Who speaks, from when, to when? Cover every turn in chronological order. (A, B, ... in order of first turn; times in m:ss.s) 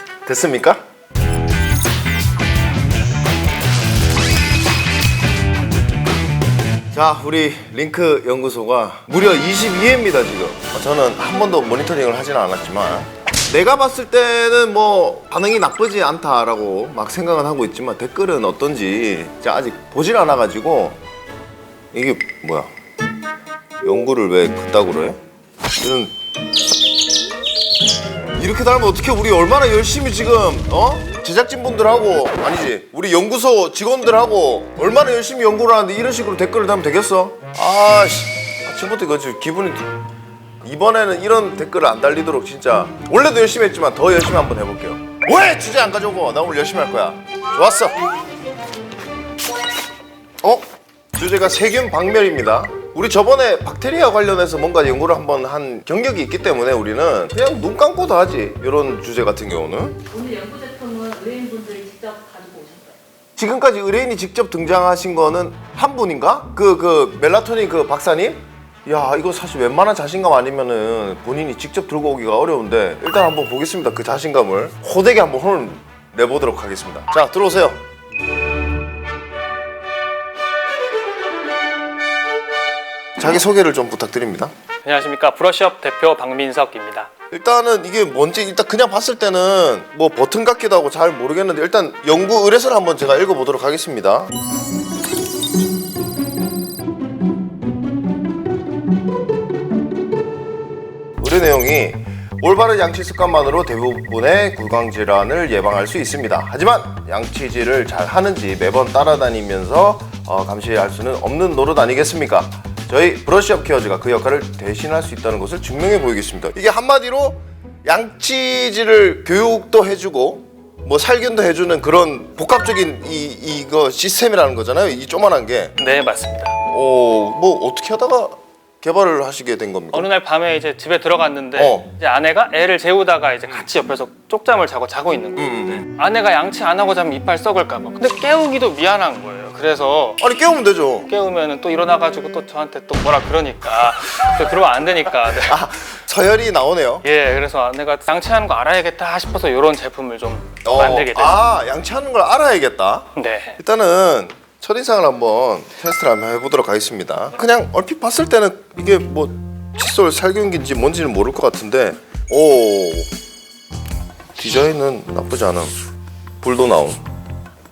0:00.2-0:00.8 A
0:06.9-0:21.0 A
0:21.9-0:22.7 A
0:23.8-0:25.2 A
0:25.8-0:26.1 A
0:28.3-0:39.9 A
0:40.6-0:48.0 A
0:50.4-1:00.0 A
1:00.1-1:03.0 B
1:03.4-1:17.8 A
1:23.2-1:24.5 A
1:24.8-1:27.1 C
1:27.3-1:34.3 A
1:41.2-2:05.8 A
2:05.8-2:06.5 C
2:06.6-2:10.1 A
2:09.9-2:20.2 C
2:11.6-2:11.9 A
2:15.4-2:15.8 A
2:20.2-2:21.1 A
2:21.0-2:25.6 C
2:25.3-2:27.0 A
2:27.0-2:31.4 C
2:30.6-2:43.1 A
2:33.2-2:33.6 C
2:44.4-2:45.7 A
2:46.4-2:47.0 A